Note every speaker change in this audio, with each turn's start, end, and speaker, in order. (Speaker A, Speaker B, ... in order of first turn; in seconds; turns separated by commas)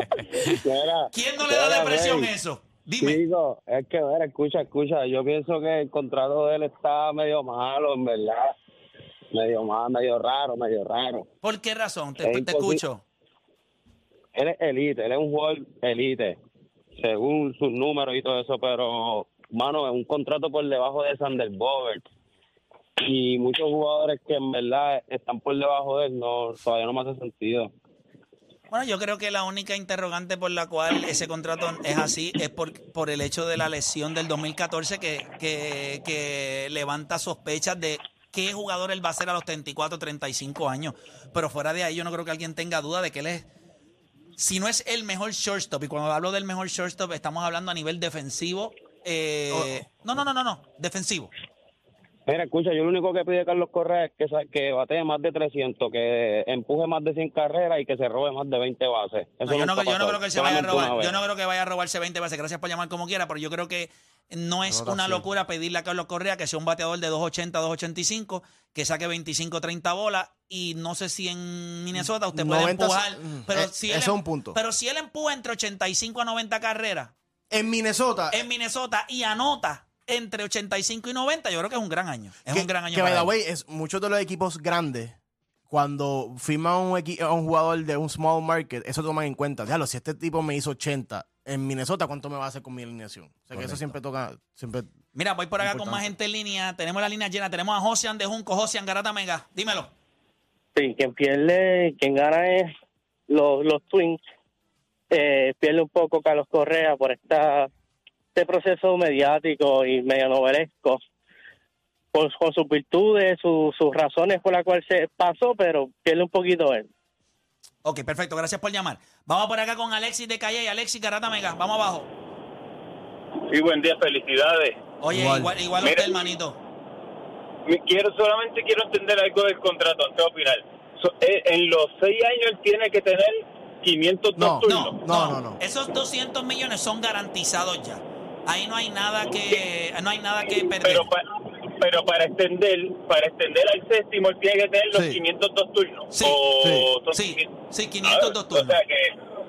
Speaker A: 0.3-2.3, Speaker B: 1.1-3.2, Speaker A: 3.0-8.5, Speaker A: 9.3-11.3, Speaker B: 11.4-13.0, Speaker A: 12.2-12.8, Speaker A: 14.3-16.4, Speaker A: 16.9-22.1, Speaker A: 23.0-27.7, Speaker B: 28.7-43.5, Speaker B: 44.4-51.3, Speaker A: 52.2-61.2, Speaker B: 59.4-77.1, Speaker C: 64.7-65.2, Speaker C: 72.0-74.6, Speaker C: 77.5-78.4, Speaker B: 78.3-83.3, Speaker C: 82.5-85.1, Speaker C: 85.7-94.9, Speaker B: 95.1-99.9, Speaker C: 95.6-96.0, Speaker D: 100.8-102.6, Speaker D: 103.3-104.2, Speaker D: 105.1-107.7, Speaker D: 108.3-111.0, Speaker D: 112.1-116.8, Speaker B: 117.8-122.1, Speaker E: 123.5-124.8, Speaker B: 125.0-126.6, Speaker C: 125.1-125.5, Speaker E: 125.8-126.3, Speaker E: 127.7-135.0, Speaker C: 134.3-135.6, Speaker B: 134.6-141.1, Speaker E: 140.5-149.1, Speaker C: 144.9-145.2, Speaker B: 146.1-146.4, Speaker C: 146.6-146.9, Speaker B: 147.1-148.8